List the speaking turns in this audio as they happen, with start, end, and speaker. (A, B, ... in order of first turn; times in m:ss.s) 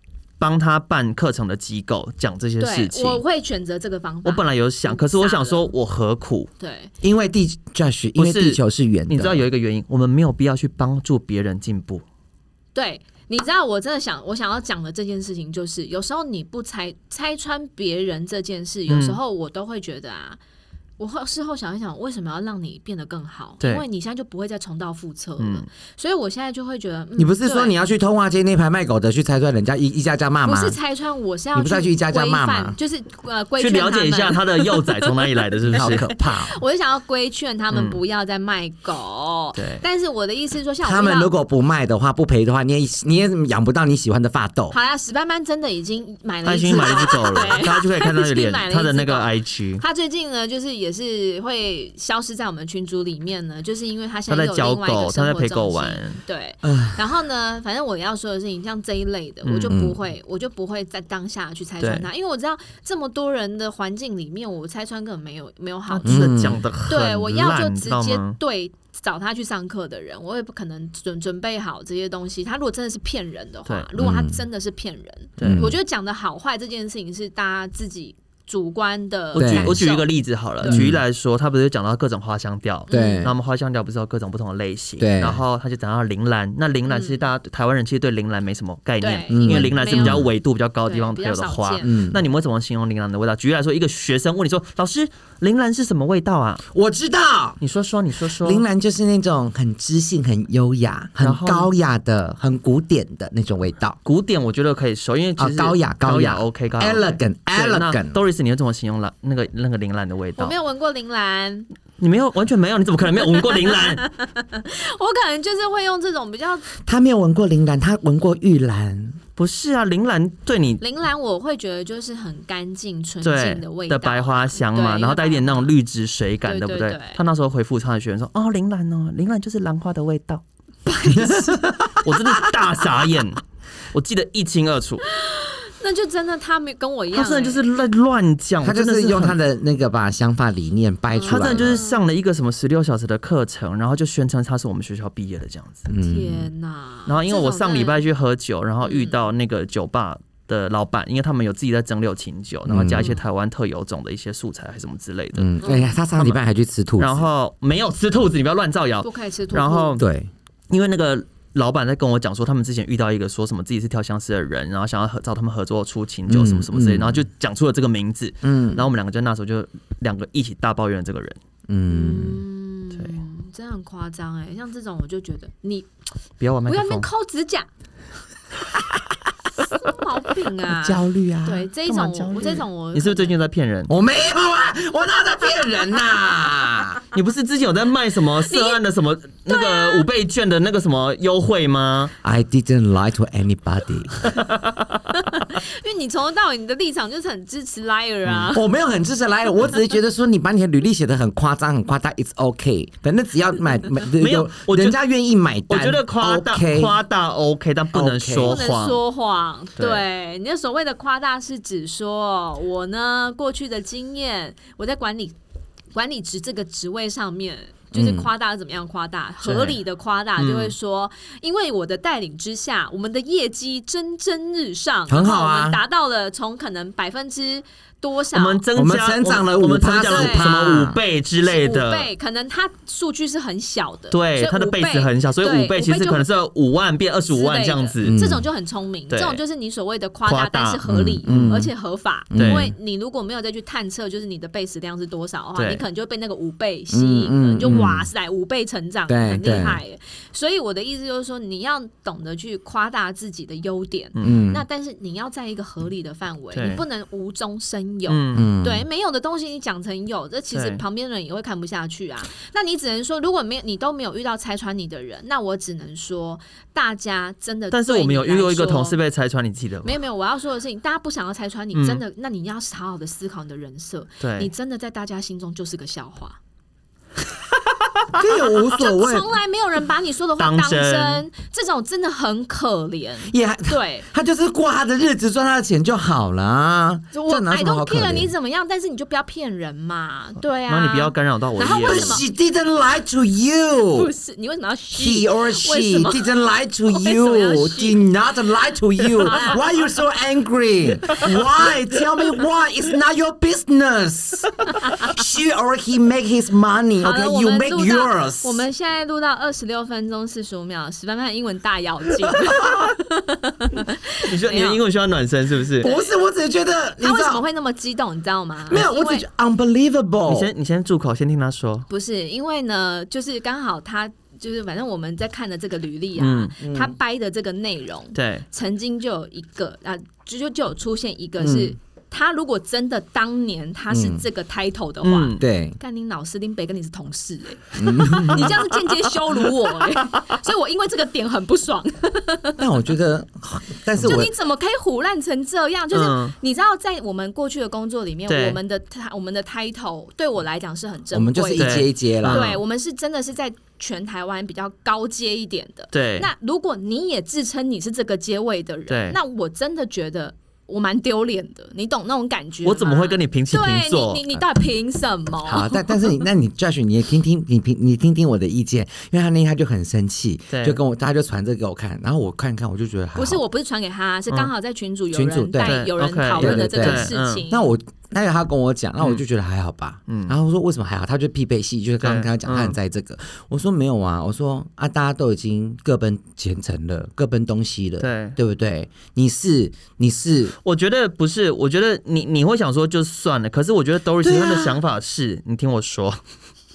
0:00.4-0:03.2 A
0:02.6-0:05.7 B
0:04.2-0:06.5 A
0:06.6-0:06.9 B
0:07.0-0:09.4 C
0:08.2-0:12.0 A
0:12.7-0:20.4 B
0:18.9-0:19.2 A
0:21.0-0:27.7 B
0:23.6-0:23.8 A
0:25.4-0:25.6 A
0:27.2-0:30.8 C
0:30.4-0:41.3 B
0:31.5-0:32.8 C
0:33.6-0:36.1 A
0:35.7-0:36.6 C
0:37.7-0:38.0 A
0:39.6-0:39.8 A
0:40.8-0:44.7 C
0:44.7-1:20.9 B
0:46.4-0:49.8 A
0:46.6-0:47.5 C
0:54.3-0:56.2 A
0:56.6-0:57.0 C
0:59.4-0:59.8 A
0:59.7-1:00.0 C
1:01.8-1:02.1 A
1:05.9-1:08.4 A
1:06.0-1:06.6 C
1:14.0-1:14.4 C
1:15.4-1:15.7 A
1:15.4-1:15.8 C
1:19.3-1:36.6 A
1:19.4-1:19.8 C
1:20.6-1:21.0 C
1:22.9-1:23.3 B
1:22.9-1:23.3 C
1:25.0-1:25.4 C
1:26.9-1:27.2 B
1:29.0-1:30.3 B
1:29.3-1:30.3 C
1:30.8-1:32.0 B
1:31.8-1:32.2 C
1:36.7-1:37.6 C
1:37.6-1:38.6 A
1:38.4-1:44.0 C
1:41.2-1:41.7 A
1:44.0-1:50.5 A
1:45.4-1:48.2 C
1:50.4-1:51.7 B
1:52.0-1:54.0 A
1:53.3-1:56.7 B
1:56.8-1:59.2 C
1:59.4-2:00.8 A
2:00.8-2:05.7 B
2:03.2-2:10.4 A
2:06.4-2:07.2 B
2:10.8-2:11.7 B
2:11.1-2:12.6 C
2:12.0-2:13.4 A
2:13.9-2:15.0 A
2:15.0-2:17.6 B
2:17.1-2:19.4 A
2:18.6-2:21.8 C
2:21.1-2:22.0 B
2:21.3-2:25.9 A
2:25.9-2:26.5 C
2:25.9-2:28.0 B
2:27.1-2:35.5 A
2:28.8-2:29.2 B
2:32.7-2:33.1 C
2:33.0-2:33.2 B
2:35.4-2:37.2 C
2:35.6-2:35.9 B
2:37.0-2:40.1 A
2:39.0-2:40.0 B
2:40.0-2:40.3 C
2:40.7-2:51.4 A
2:46.3-2:47.2 C
2:48.4-2:48.8 C
2:51.7-2:52.4 C
2:51.9-2:55.9 B
2:56.4-2:57.0 A
2:56.7-2:57.7 B
2:59.6-3:03.4 B
3:00.7-3:01.7 C
3:01.8-3:03.9 A
3:03.9-3:07.0 C
3:07.1-3:12.1 A
3:08.4-3:08.8 B
3:09.5-3:10.1 B
3:12.2-3:14.3 C
3:14.2-3:15.0 A
3:15.1-3:18.6 B
3:18.5-3:26.9 C
3:24.2-3:25.0 A
3:25.7-3:29.0 A
3:27.9-3:28.6 C
3:28.4-3:35.3 B
3:29.8-3:30.0 A
3:35.9-3:48.6 B
3:37.9-3:38.3 C
3:39.4-3:39.8 A
3:40.4-3:40.7 A
3:45.1-3:45.8 C
3:48.3-3:52.1 A
3:48.7-3:51.0 C
3:50.0-3:50.6 B
3:51.4-3:56.3 B
3:54.1-3:58.2 A
3:57.3-4:29.0 B
3:58.0-3:58.4 C
3:59.1-3:59.4 A
4:00.2-4:01.7 A
4:00.9-4:01.7 C
4:02.3-4:02.7 C
4:02.3-4:02.7 A
4:05.5-4:05.8 A
4:06.9-4:08.0 C
4:07.7-4:08.0 A
4:09.1-4:09.8 C
4:14.2-4:14.4 A
4:14.2-4:14.6 C
4:16.5-4:16.8 A
4:18.1-4:18.5 A
4:18.3-4:18.8 C
4:20.5-4:20.8 A
4:27.7-4:30.0 A
4:29.8-4:36.4 B
4:31.7-4:32.0 A
4:34.2-4:34.5 A
4:38.1-4:39.3 C
4:38.6-4:44.1 B
4:40.4-4:41.2 A
4:43.3-4:48.3 C
4:47.1-4:52.2 B
4:50.7-4:52.2 A
4:51.6-4:54.1 C
4:53.9-4:58.1 B
4:54.9-5:08.6 C
4:59.0-4:59.6 B
5:07.0-5:14.8 B
5:14.2-5:15.9 A
5:15.8-5:17.4 C
5:15.8-5:16.2 B
5:17.0-5:19.2 B
5:18.7-5:20.5 C
5:20.2-5:21.9 A
5:21.9-5:42.6 B
5:26.2-5:26.5 A
5:26.6-5:26.9 C
5:28.1-5:28.4 A
5:31.4-5:31.7 C
5:33.9-5:34.2 C
5:35.0-5:35.4 A
5:35.4-5:35.8 C
5:37.8-5:38.6 C
5:38.2-5:40.4 A
5:42.6-5:44.3 C
5:44.0-6:06.1 B
5:45.9-5:46.3 A
5:48.3-5:48.6 A
5:51.1-5:52.5 C
5:51.5-5:52.6 A
5:55.9-5:56.3 A
5:58.9-5:59.2 A
6:02.6-6:04.2 A
6:05.4-6:13.4 C
6:10.5-6:10.8 A
6:13.2-6:17.7 B
6:15.1-6:30.5 C
6:15.6-6:17.4 A
6:20.1-6:20.3 A
6:22.0-6:22.8 A
6:28.0-6:28.4 A
6:30.6-6:36.2 A
6:34.2-6:34.8 C